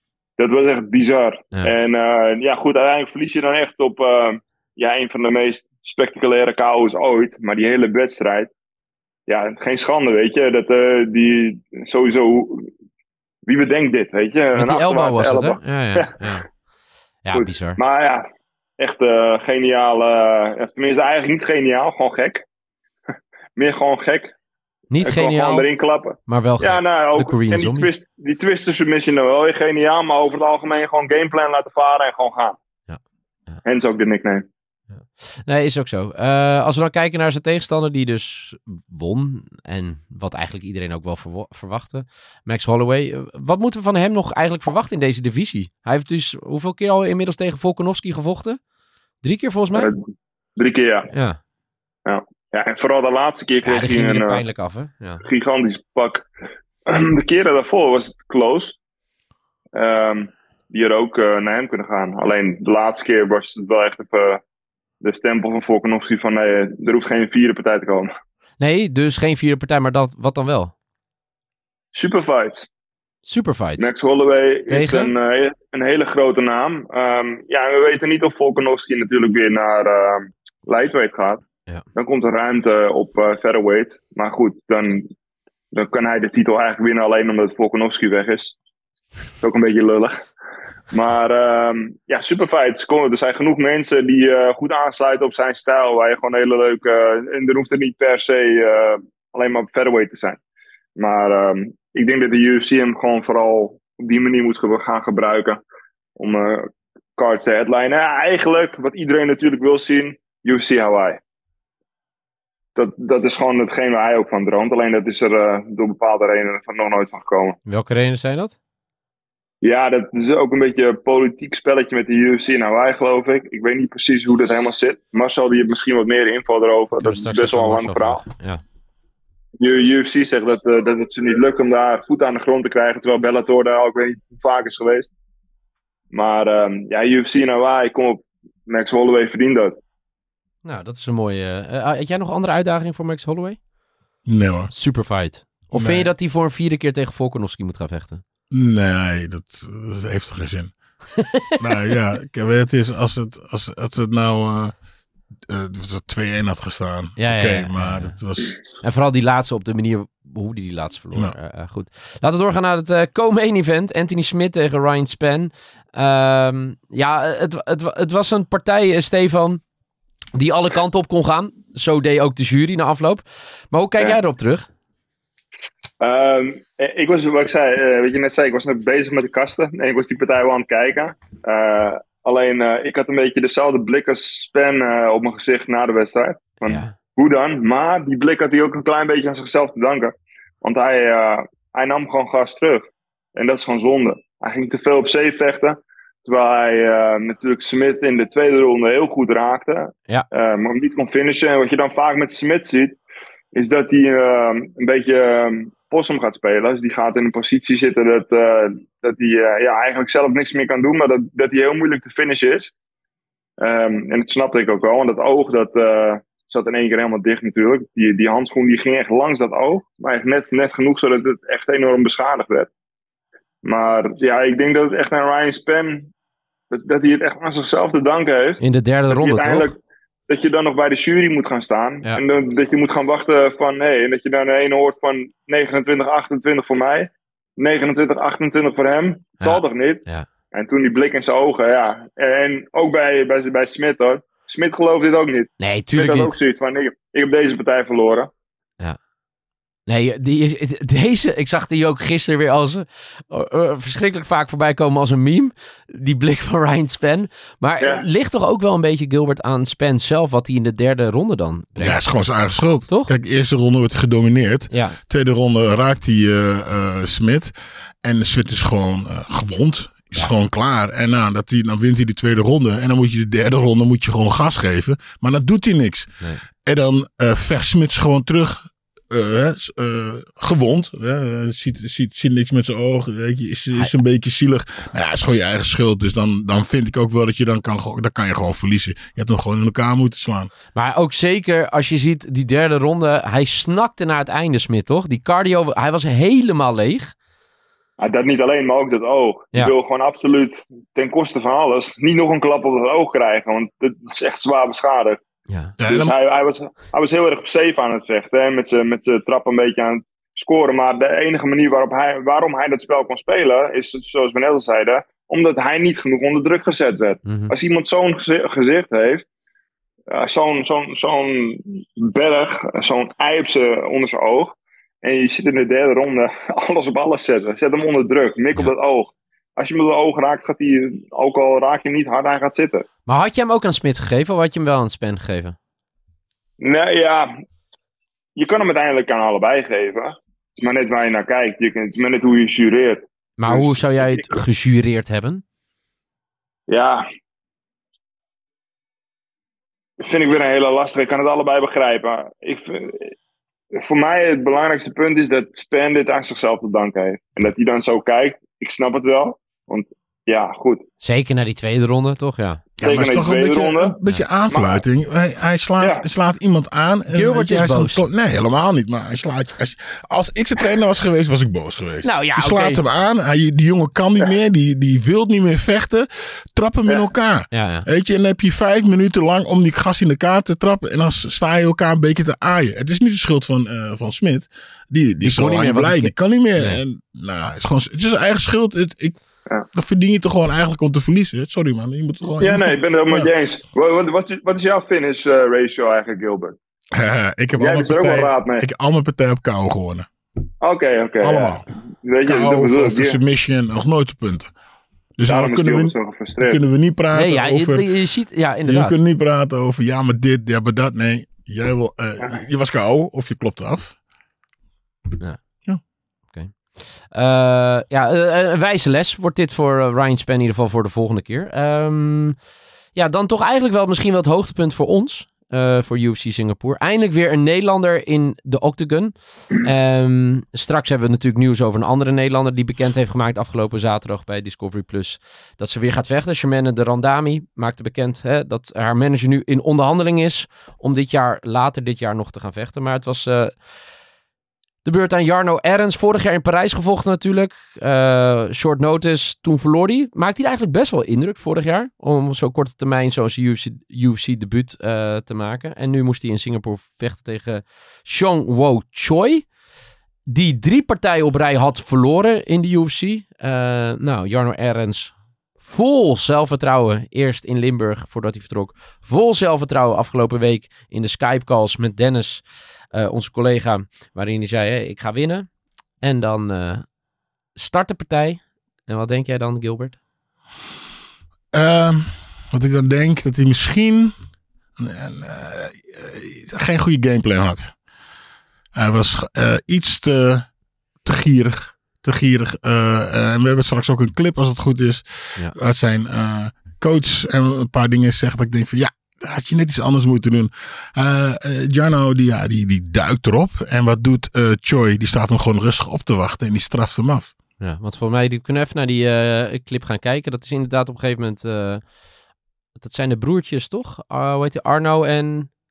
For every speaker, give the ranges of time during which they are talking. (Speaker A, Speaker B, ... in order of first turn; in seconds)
Speaker A: 0.4-8.5, 9.3-12.7, 13.5-16.4, 17.3-18.3, 18.8-22.4, 23.6-24.3, 25.0-32.6, 33.6-34.5, 50.6-51.1, 52.1-54.4, 55.2-56.3, 56.9-58.8, 59.8-64.4, 65.0-68.1, 71.9-72.7, 73.8-81.4, 82.0-85.1, 85.7-88.5, 89.4-90.2, 90.9-100.4, 101.0-105.6, 106.2-111.2, 112.8-117.6, 119.6-128.2, 129.6-135.1, 136.1-139.8, 176.0-192.8, 193.4-203.0, 203.5-212.7, 213.6-222.7, 223.6-226.1, 226.7-229.8, 230.3-248.3, 298.0-305.2, 305.9-319.2, 320.1-332.9, 336.6-337.3, 338.4-344.4, 346.7-347.0, 350.0-353.1, 353.7-360.9, 362.8-363.9, 364.5-364.8, 365.8-366.1, 392.4-396.6, 397.6-398.6, 400.6-403.2, 405.3-406.6
Speaker B: 14.5-16.5, 17.2-17.8, 24.9-25.7, 26.3-27.9, 32.9-33.6, 34.9-48.6, 49.2-49.9, 51.1-51.4, 53.6-55.2, 68.6-70.7, 73.2-73.9, 74.7-75.1, 117.7-118.5, 127.0-128.6, 140.7-143.6, 144.7-148.2, 151.2-151.5, 157.2-158.2, 158.8-169.6, 170.3-174.7, 186.6-186.9, 228.6-229.7, 239.4-240.3, 245.6-246.4, 249.9-262.1, 264.7-265.0, 290.8-297.1, 317.3-317.5, 333.1-335.6, 343.4-345.4, 361.0-362.6, 367.1-368.0, 372.0-372.8, 377.5-377.9, 385.2-386.8, 407.1-409.0, 416.3-422.4, 422.9-443.7, 444.8-459.5, 460.3-476.9, 477.6-480.0, 507.6-511.9, 512.8-515.5
Speaker C: 144.2-144.7, 145.7-146.1, 148.5-150.7, 151.6-154.8, 155.5-158.6, 261.8-290.5, 305.8-306.1, 362.8-389.2, 389.7-393.3, 396.9-400.1, 401.2-401.6, 402.3-404.5, 405.2-407.9, 408.6-414.0, 481.5-484.2, 484.8-487.8, 488.8-490.5, 491.0-507.3